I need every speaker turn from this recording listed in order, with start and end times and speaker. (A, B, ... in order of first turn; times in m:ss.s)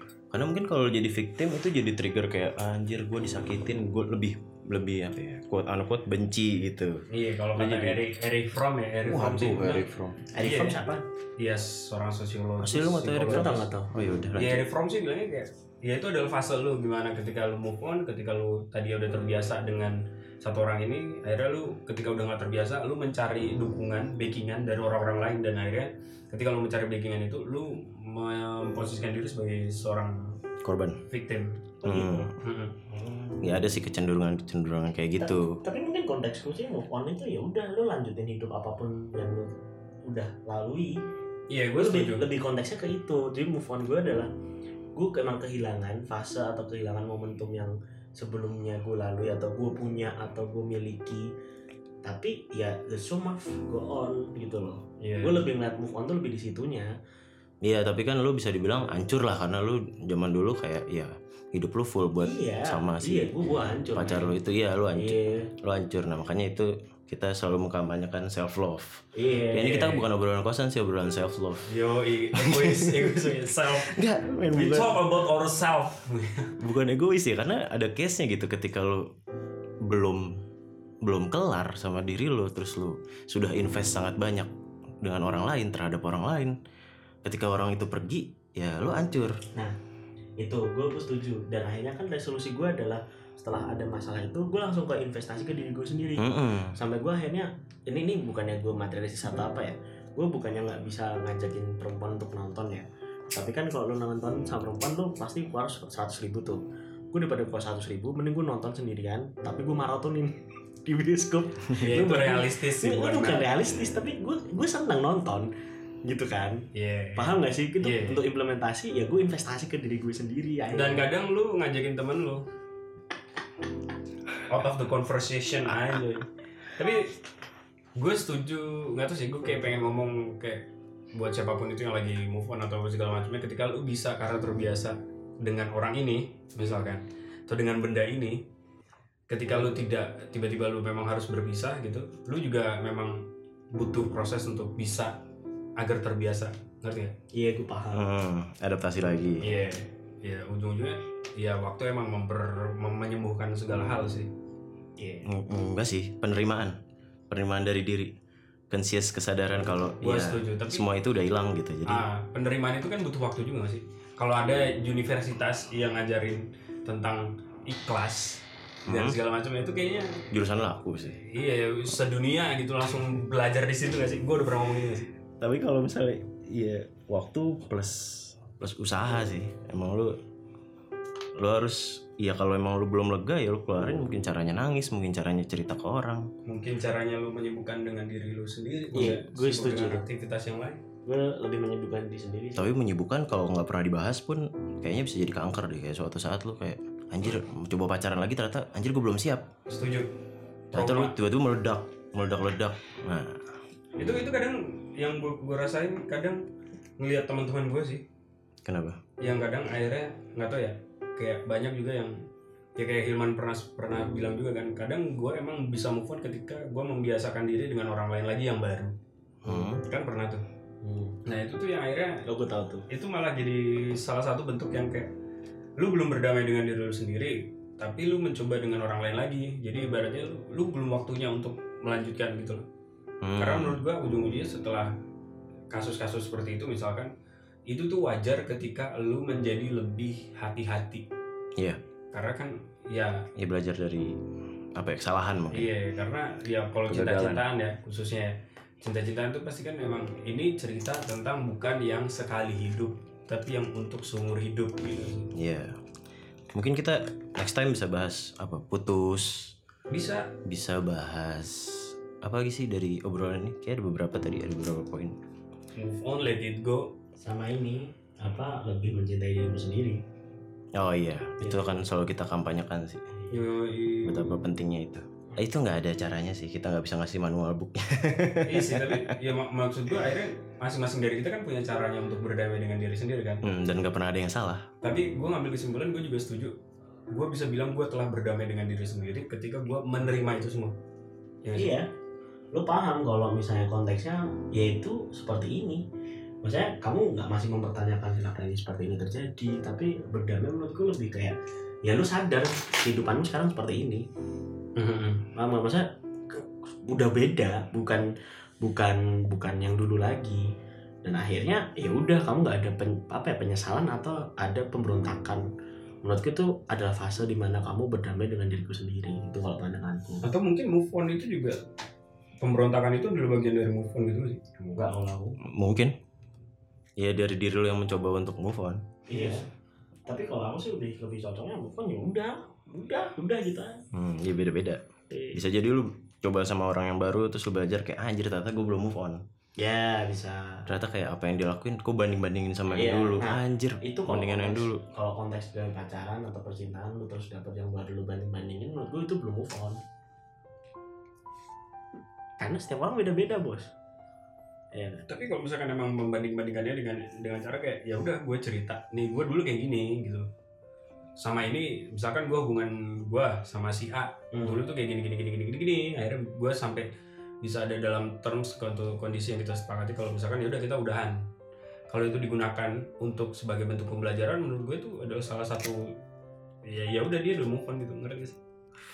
0:00.3-0:08.0 A
0:07.1-0:09.9 B
0:09.0-0:10.3 A
0:10.3-0:11.0 C
0:10.4-0:13.4 B
0:12.6-0:14.7 A
0:13.3-0:13.9 C
0:14.4-0:30.4 B
0:30.6-0:31.0 A
0:31.1-0:31.7 B
0:31.8-0:32.3 C
0:31.8-0:32.3 A
0:32.4-0:32.8 B
0:32.9-0:33.6 C
0:33.4-0:35.6 A
0:35.2-0:39.5 C
0:40.0-0:40.9 C
0:41.5-0:42.3 B
0:41.8-0:44.3 C
0:45.0-0:51.2 C
0:52.0-0:56.9 C
0:55.0-0:55.5 B
0:57.6-1:11.7 A
1:02.2-1:04.4 C
1:04.9-1:05.5 C
1:09.1-1:10.0 C
1:11.7-1:13.9 B
1:12.3-1:13.1 A
1:13.8-1:15.0 A
1:14.5-1:16.6 B
1:16.6-1:19.1 A
1:19.8-1:20.4 A
1:21.0-1:24.5 A
1:25.0-1:26.6 A
1:27.2-1:29.4 A
1:30.4-1:46.6 C
1:36.2-1:36.7 A
1:47.1-1:55.5 C
1:51.8-1:53.5 B
1:56.0-1:56.6 C
1:56.7-1:58.2 B
1:57.2-2:01.1 C
2:00.7-2:02.4 B
2:04.5-2:07.2 B
2:08.0-2:18.4 B
2:19.3-2:25.2 B
2:19.4-2:19.9 C
2:25.8-2:27.2 B
2:27.3-2:28.1 C
2:27.9-2:29.5 A
2:29.4-2:34.3 B
2:35.2-2:36.8 A
2:37.3-2:38.1 A
2:38.7-2:42.0 A
2:40.0-2:40.8 B
2:41.9-2:50.2 B
2:48.9-2:49.2 A
2:50.3-2:51.2 A
2:51.2-2:55.1 B
2:55.4-3:00.2 A
3:01.4-3:06.3 A
3:06.4-3:10.8 B
3:08.9-3:10.0 C
3:11.0-3:12.7 C
3:12.6-3:19.5 A
3:19.7-3:20.1 B
3:20.7-3:21.2 B
3:20.7-3:23.4 A
3:23.9-3:26.4 B
3:27.0-3:28.0 B
3:28.6-3:29.0 A
3:29.2-3:32.2 B
3:32.8-3:38.9 B
3:39.4-3:39.8 A
3:39.5-3:40.4 B
3:40.8-3:41.2 C
3:41.3-3:42.2 B
3:42.3-3:42.8 C
3:42.9-3:45.1 B
3:45.8-3:52.6 B
3:53.2-3:53.8 A
3:53.4-3:54.9 B
3:55.7-3:57.1 B
3:57.7-4:01.1 B
4:02.1-4:03.3 B
4:03.4-4:04.2 A
4:04.8-4:05.7 A
4:05.5-4:15.3 B
4:06.9-4:07.4 A
4:15.3-4:15.8 A
4:16.5-4:19.6 A
4:19.9-4:20.3 B
4:20.4-4:25.2 A
4:25.8-4:26.9 B
4:27.2-4:30.0 C
4:30.8-4:33.1 A
4:31.4-4:31.8 C
4:33.3-4:34.3 B
4:34.0-4:39.0 A
4:38.4-4:43.4 B
4:43.4-4:44.7 A
4:44.8-4:46.6 B
4:47.1-4:50.8 B
4:51.4-4:51.8 B
4:51.5-4:51.9 C
4:52.5-4:55.8 C
4:56.4-5:04.0 C
5:04.8-5:05.3 B
5:05.3-5:08.0 C
5:08.6-5:10.4 C
5:11.0-5:15.4 C
5:16.0-5:20.3 C
5:20.2-5:21.6 B
5:22.4-5:24.4 B
5:24.6-5:25.4 C
5:25.5-5:25.9 A
5:27.0-5:28.8 A
5:29.1-5:29.4 C
5:30.1-5:33.8 C
5:33.9-5:34.8 A
5:35.1-5:35.4 C
5:35.3-5:39.2 A
5:39.6-5:40.7 C
5:40.7-5:44.8 A
5:42.7-5:49.8 C
5:52.4-5:53.7 C
5:54.7-5:55.0 C
5:55.1-6:00.3 B
6:01.2-6:06.9 B
6:04.3-6:04.6 C
6:07.4-6:11.2 B
6:11.9-6:15.9 B
6:16.6-6:18.4 B